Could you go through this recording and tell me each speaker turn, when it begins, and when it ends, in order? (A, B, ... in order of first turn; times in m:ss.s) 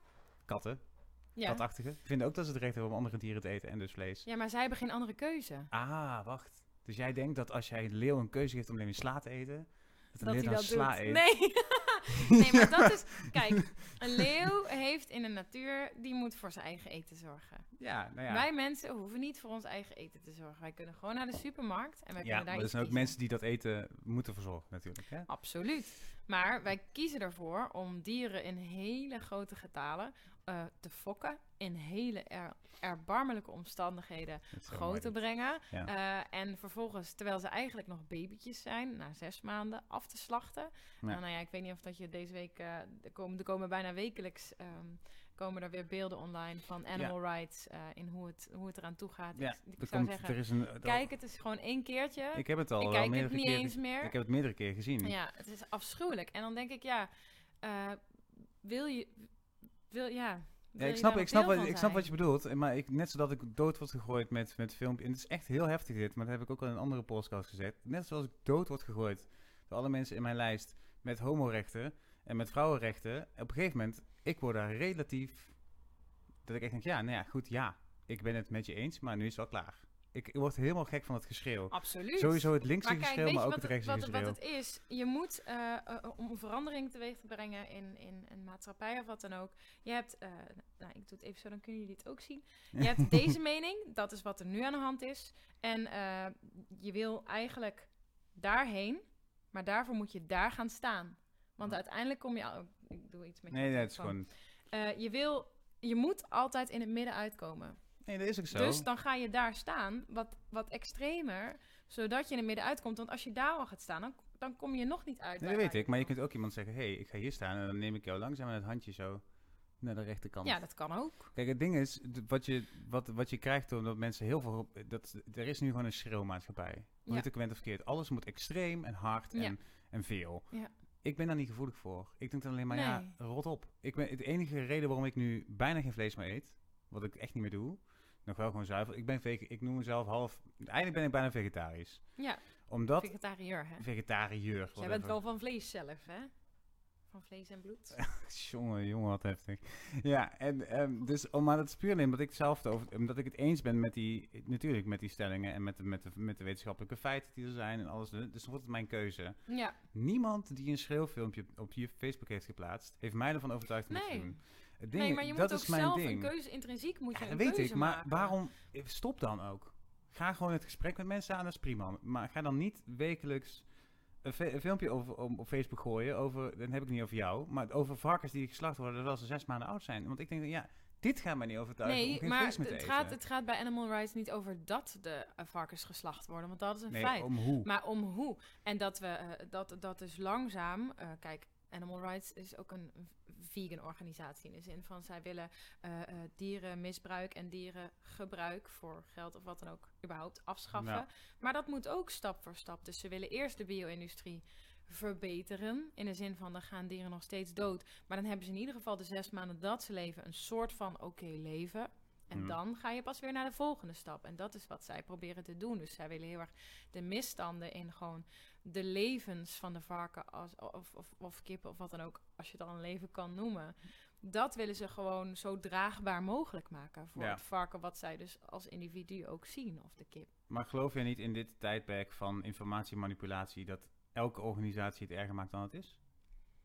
0:00.4-0:04.3 A
0:01.3-0:01.6 B
0:04.2-0:05.7 B
0:05.7-0:11.2 A
0:10.2-0:17.8 B
0:12.4-0:14.2 A
0:17.8-0:18.4 A
0:18.3-0:23.2 B
0:22.2-0:25.3 A
0:25.3-0:54.1 B
0:34.5-0:35.2 A
0:49.4-0:51.0 A
0:52.3-0:55.1 A
0:55.0-0:57.1 B
0:57.6-0:59.4 B
0:59.9-1:02.1 B
1:00.8-1:15.6 A
1:16.4-1:24.4 A
1:21.7-1:47.8 B
1:32.7-1:33.1 A
1:43.5-1:44.3 A
1:48.0-1:48.8 A
1:48.5-1:56.1 B
1:55.4-1:59.2 A
1:59.8-2:10.5 A
2:00.4-2:01.3 B
2:11.0-2:23.2 A
2:12.7-2:13.1 B
2:22.2-2:23.8 B
2:23.8-2:25.2 A
2:24.8-2:26.3 B
2:27.1-2:28.0 B
2:28.0-2:46.3 A
2:39.5-2:39.8 B
2:43.9-2:48.3 B
2:47.1-2:53.7 A
2:54.2-3:03.2 A
3:01.8-3:50.3 B
3:06.9-3:07.7 A
3:20.7-3:21.0 A
3:47.2-3:47.4 A
3:50.5-3:56.0 A